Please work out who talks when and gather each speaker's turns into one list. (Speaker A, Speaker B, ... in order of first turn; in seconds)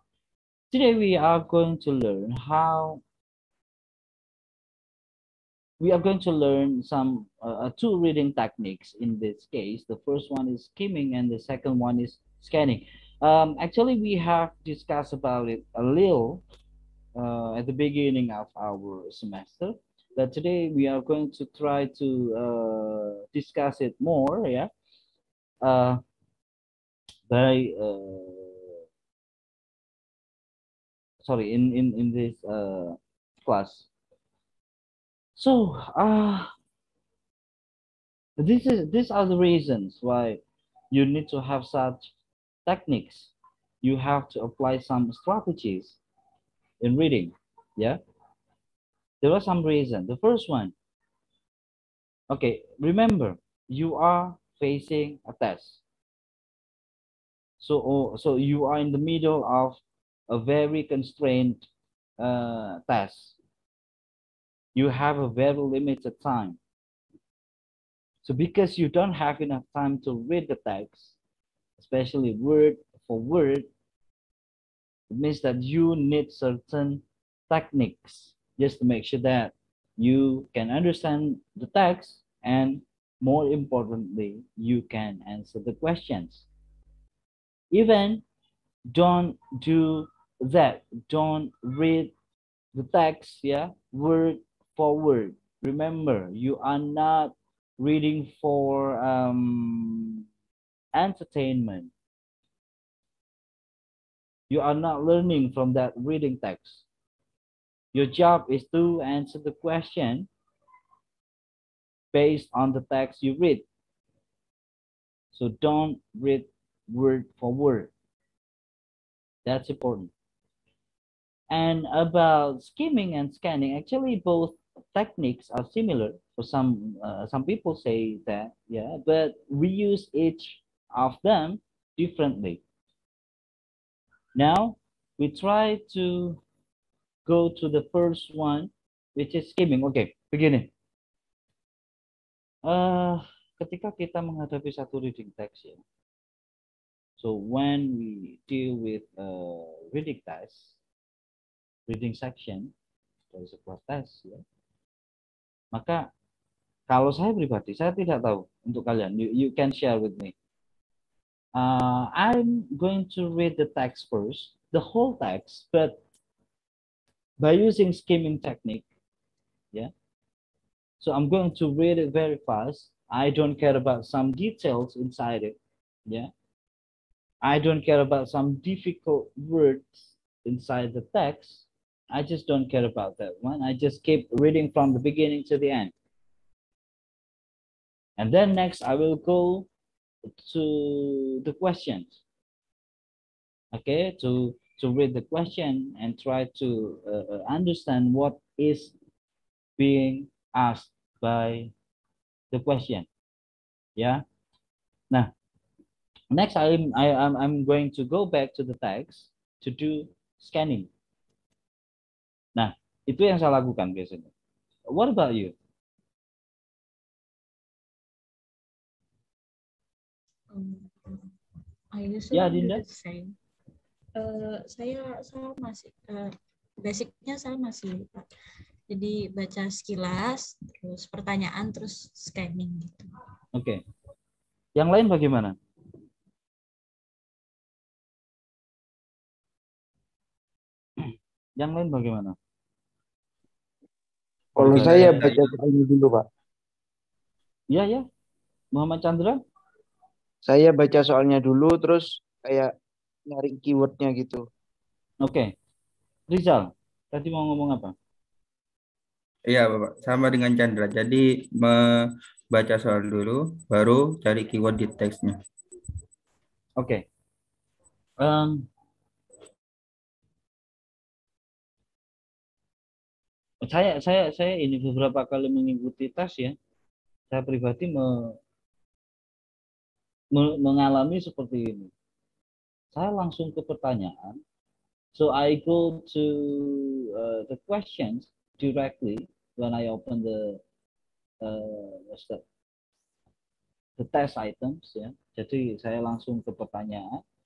Speaker A: 0.7-3.0, 5.8-16.4, 17.1-24.7, 25.6-26.0, 27.3-28.8, 31.2-33.9, 35.4-36.5, 38.4-42.1, 42.6-46.0, 46.8-48.0, 49.2-50.7, 52.3-55.8, 57.6-61.7, 62.2-63.4, 64.7-66.6, 68.2-71.2, 71.8-73.7, 75.1-86.5, 87.7-88.2, 88.9-92.1, 92.7-100.1, 100.9-101.9, 104.5-106.8, 107.9-110.3, 112.1-113.7, 115.3-117.9, 119.4-120.1, 121.5-132.6, 134.3-136.4, 137.2-140.7, 142.6-145.8, 147.2-150.8, 151.9-152.7, 153.3-154.4, 155.7-156.1, 156.9-160.3, 161.6-166.0, 167.4-168.8, 171.0-176.3, 177.4-185.9, 188.2-189.7, 190.4-192.2, 193.7-198.9, 199.8-201.7, 202.5-203.1, 204.0-204.2, 206.3-210.9, 212.6-214.3, 214.9-215.5, 222.3-222.8, 233.5-233.8, 234.8-235.6, 241.6-242.4, 244.6-245.3, 247.7-248.1, 248.7-249.4, 255.2-255.5, 256.3-257.9, 266.8-267.0, 268.2-268.6, 273.6-276.6, 277.3-278.4, 280.3-281.9, 282.9-284.4, 285.1-290.6, 291.4-292.4, 294.0-297.2
Speaker B: 220.5-221.3, 221.9-223.3, 224.2-228.3, 228.9-233.1
Speaker C: 244.6-246.2, 250.4-252.7, 253.3-254.4
Speaker D: 244.7-245.4, 259.5-265.4